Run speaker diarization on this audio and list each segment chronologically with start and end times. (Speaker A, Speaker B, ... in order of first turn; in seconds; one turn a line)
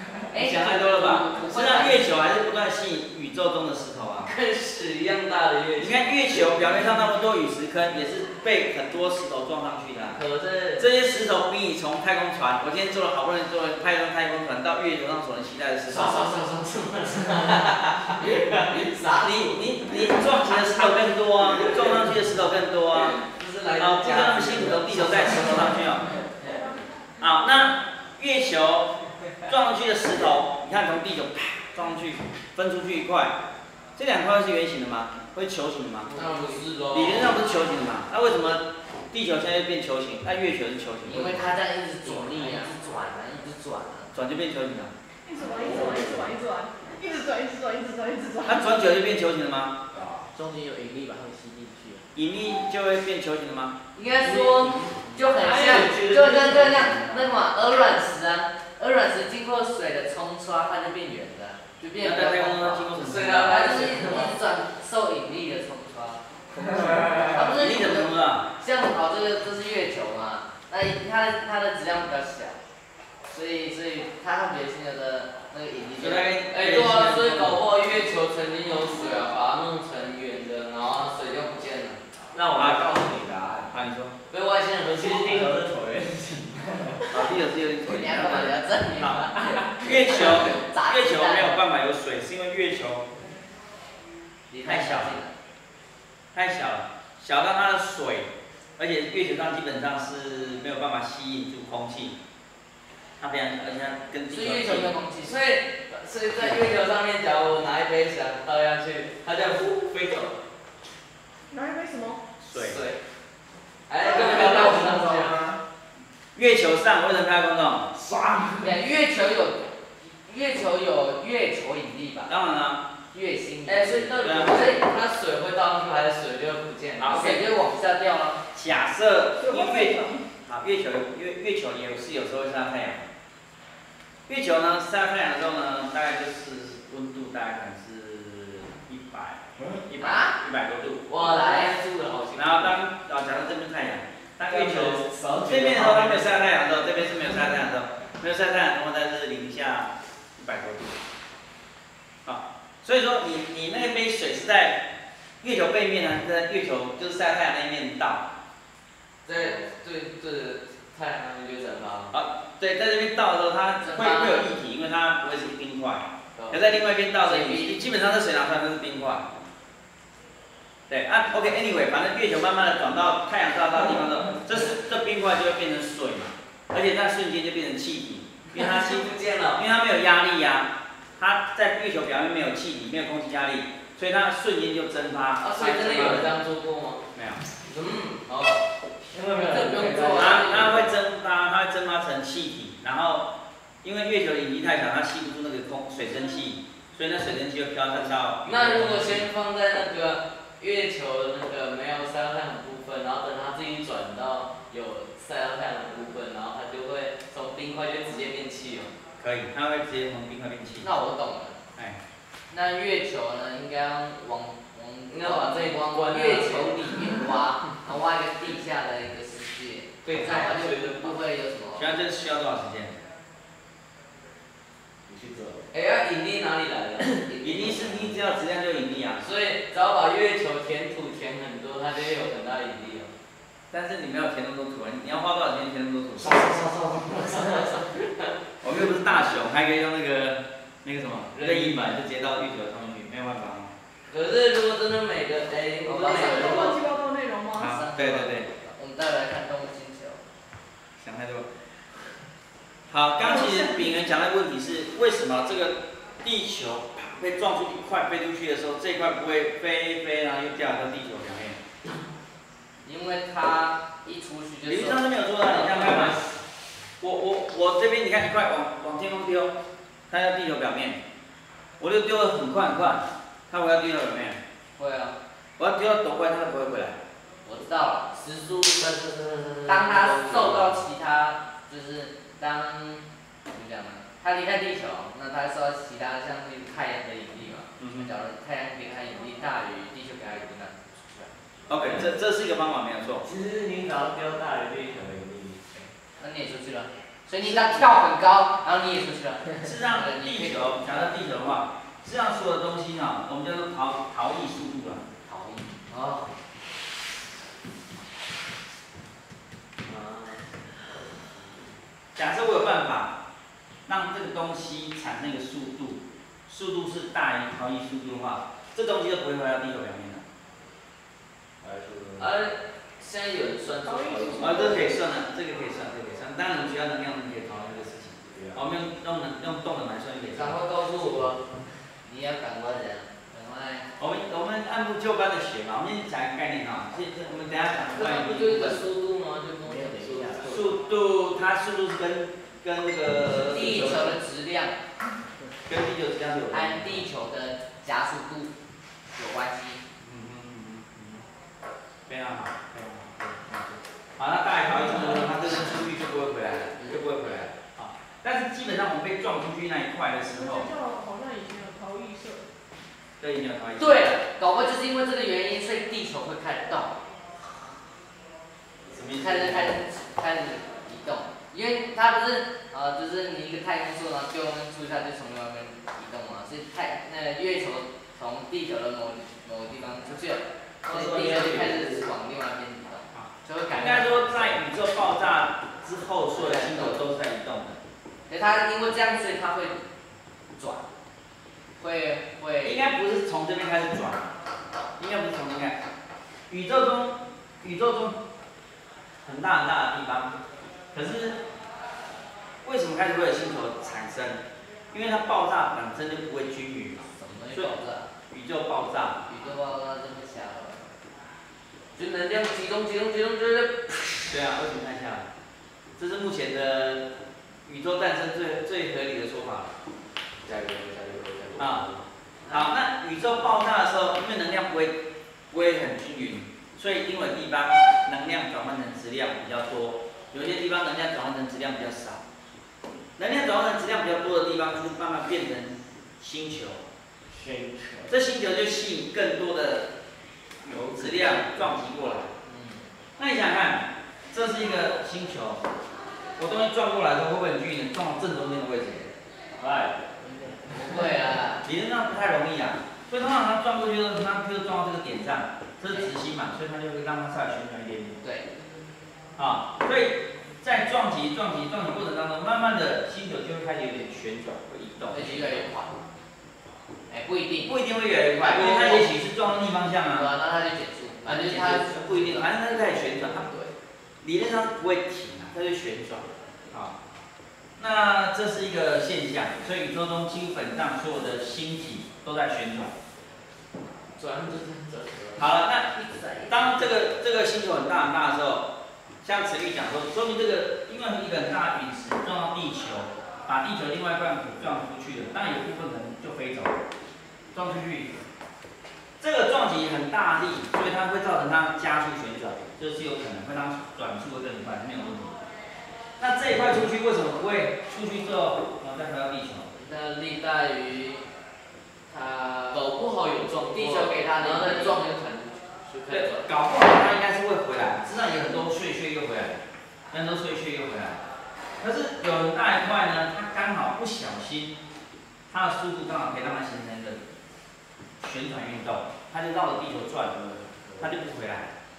Speaker A: 0.3-2.2
Speaker B: 0.3-4.3
Speaker C: 4.2-6.0
Speaker B: 5.8-10.2
Speaker C: 10.2-10.9
Speaker B: 10.8-16.3
Speaker C: 15.9-22.1
Speaker B: 19.2-23.2
Speaker C: 22.9-26.6
Speaker B: 23.8-26.0
Speaker B: 27.2-28.9
Speaker B: 29.5-33.4
Speaker B: 34.0-36.1
Speaker C: 36.1-37.4
Speaker A: 36.1-36.6
Speaker B: 36.9-41.5
Speaker A: 41.0-44.1
Speaker D: 42.0-42.7
Speaker B: 44.1-44.9
Speaker E: 45.2-48.6
Speaker F: 45.5-46.4
Speaker B: 48.5-49.8
Speaker F: 49.9-50.3
Speaker D: 50.3-52.1
Speaker B: 52.1-53.8
Speaker A: 54.0-72.6
Speaker F: 54.2-57.3
Speaker C: 55.4-55.9
Speaker B: 62.0-63.6
Speaker C: 63.0-64.3
Speaker B: 67.3-68.5
Speaker A: 73.3-76.3
Speaker B: 76.0-77.6
Speaker C: 76.5-82.0
Speaker F: 82.3-83.8
Speaker B: 82.5-83.1
Speaker B: 83.7-84.2
Speaker C: 84.3-85.5
Speaker F: 84.9-87.1
Speaker B: 87.1-93.1
Speaker A: 87.8-91.6
Speaker F: 89.4-89.9
Speaker A: 94.5-95.3
Speaker B: 94.7-95.2
Speaker B: 96.3-102.2
Speaker B: 103.2-105.0
Speaker A: 104.3-105.4
Speaker C: 105.2-110.4
Speaker E: 111.5-112.2
Speaker B: 112.4-112.8
Speaker C: 112.6-113.0
Speaker C: 113.9-115.4
Speaker F: 114.0-115.6
Speaker B: 116.3-117.9
Speaker F: 118.0-118.8
Speaker A: 118.6-122.3
Speaker B: 122.3-122.8
Speaker A: 123.1-124.8
Speaker C: 123.7-127.4
Speaker B: 124.2-124.6
Speaker B: 127.0-127.4
Speaker A: 127.1-128.4
Speaker B: 128.5-133.1
Speaker E: 129.4-130.2
Speaker B: 134.3-141.1
Speaker F: 139.6-139.8
Speaker A: 140.0-140.3
Speaker C: 141.1-142.7
Speaker A: 141.2-141.8
Speaker B: 142.4-151.0
Speaker F: 144.5-146.5
Speaker B: 152.2-154.8
Speaker B: 155.4-158.3
Speaker C: 159.2-162.2
Speaker B: 162.1-169.3
Speaker A: 163.8-164.5
Speaker C: 166.4-166.6
Speaker A: 167.2-167.9
Speaker B: 170.9-186.4
Speaker C: 178.6-179.6
Speaker C: 185.4-187.0
Speaker B: 187.2-187.4
Speaker C: 187.6-188.7
Speaker F: 189.1-190.9
Speaker C: 189.3-190.8
Speaker B: 190.1-193.3
Speaker B: 193.8-199.3
Speaker C: 198.4-208.9
Speaker B: 209.2-210.9
Speaker A: 210.8-211.6
Speaker A: 212.5-222.0
Speaker C: 215.1-217.2
Speaker C: 220.0-221.2
Speaker B: 221.8-223.1
Speaker F: 225.1-225.7
Speaker C: 225.7-228.1
Speaker B: 227.4-229.3
Speaker C: 229.2-233.1
Speaker B: 233.7-236.5
Speaker F: 236.2-237.8
Speaker C: 237.3-238.3
Speaker B: 238.6-243.7
Speaker C: 241.3-241.9
Speaker C: 244.1-246.7
Speaker A: 245.8-246.8
Speaker E: 246.0-247.8
Speaker B: 247.6-248.5
Speaker A: 247.6-250.2
Speaker B: 251.0-251.5
Speaker B: 252.9-261.6
Speaker E: 253.2-253.9
Speaker A: 262.8-265.1
Speaker B: 264.7-266.2
Speaker C: 265.6-266.3
Speaker B: 267.0-269.5
Speaker B: 270.1-271.0
Speaker B: 271.8-274.4
Speaker A: 274.8-275.1
Speaker B: 275.6-277.0
Speaker A: 277.4-278.2
Speaker C: 278.2-280.6
Speaker A: 279.7-291.3
Speaker B: 287.8-288.1
Speaker B: 291.7-293.3
Speaker F: 291.7-292.1
Speaker F: 293.2-295.9
Speaker A: 296.2-301.0
Speaker B: 297.4-298.0
Speaker B: 299.6-305.1
Speaker A: 305.2-306.4
Speaker C: 309.9-311.2
Speaker B: 312.1-313.1
Speaker B: 313.9-320.2
Speaker F: 321.6-322.3
Speaker C: 322.2-324.9
Speaker E: 323.8-324.9
Speaker B: 324.4-330.6
Speaker F: 328.3-328.6
Speaker C: 330.4-331.4
Speaker A: 332.1-333.9
Speaker B: 334.0-338.8
Speaker C: 337.9-340.8
Speaker D: 339.6-340.6
Speaker B: 340.5-344.2
Speaker A: 343.4-344.8
Speaker B: 345.6-347.1
Speaker A: 346.5-348.5
Speaker A: 349.1-349.8
Speaker B: 350.0-351.2
Speaker B: 352.1-360.7
Speaker E: 360.3-362.5
Speaker B: 363.2-364.1
Speaker A: 363.8-367.0
Speaker B: 368.9-369.8
Speaker A: 369.2-384.6
Speaker F: 380.9-381.9
Speaker C: 381.4-381.8
Speaker B: 383.1-387.8
Speaker A: 386.3-387.0
Speaker A: 388.3-389.9
Speaker A: 390.6-390.9
Speaker A: 391.8-392.9
Speaker B: 392.6-394.4
Speaker B: 395.0-395.8
Speaker B: 396.5-398.2
Speaker B: 399.2-400.4
Speaker B: 400.9-401.4
Speaker B: 402.6-407.7
Speaker A: 407.1-408.1
Speaker B: 408.3-409.2
Speaker A: 409.3-410.9
Speaker C: 411.9-414.4
Speaker B: 414.3-415.3
Speaker B: 416.0-417.1
Speaker B: 417.6-419.7
Speaker C: 420.4-422.0
Speaker B: 421.6-421.9
Speaker B: 422.5-432.2
Speaker B: 433.2-436.9
Speaker F: 437.3-438.2
Speaker B: 438.1-439.9
Speaker B: 440.6-442.3
Speaker A: 442.4-442.9
Speaker B: 443.2-445.6
Speaker B: 446.4-449.1
Speaker F: 449.6-450.2
Speaker A: 450.6-451.6
Speaker B: 451.6-458.2
Speaker A: 458.2-458.5
Speaker B: 459.4-465.7
Speaker A: 465.1-466.0
Speaker A: 467.1-467.8
Speaker B: 467.6-470.3
Speaker A: 468.3-469.1
Speaker A: 470.1-472.5
Speaker B: 471.2-473.5
Speaker B: 474.2-476.9
Speaker B: 477.8-482.9
Speaker C: 484.2-485.5
Speaker B: 485.4-485.9
Speaker A: 485.9-486.9
Speaker B: 486.5-488.7
Speaker B: 489.2-496.8
Speaker B: 497.5-498.2
Speaker B: 499.2-505.4
Speaker B: 506.2-509.7
Speaker A: 509.8-511.3
Speaker A: 512.1-512.9
Speaker C: 512.7-515.5
Speaker A: 513.7-516.5
Speaker B: 516.1-521.2
Speaker B: 521.8-524.8
Speaker B: 525.5-527.2
Speaker B: 528.2-531.7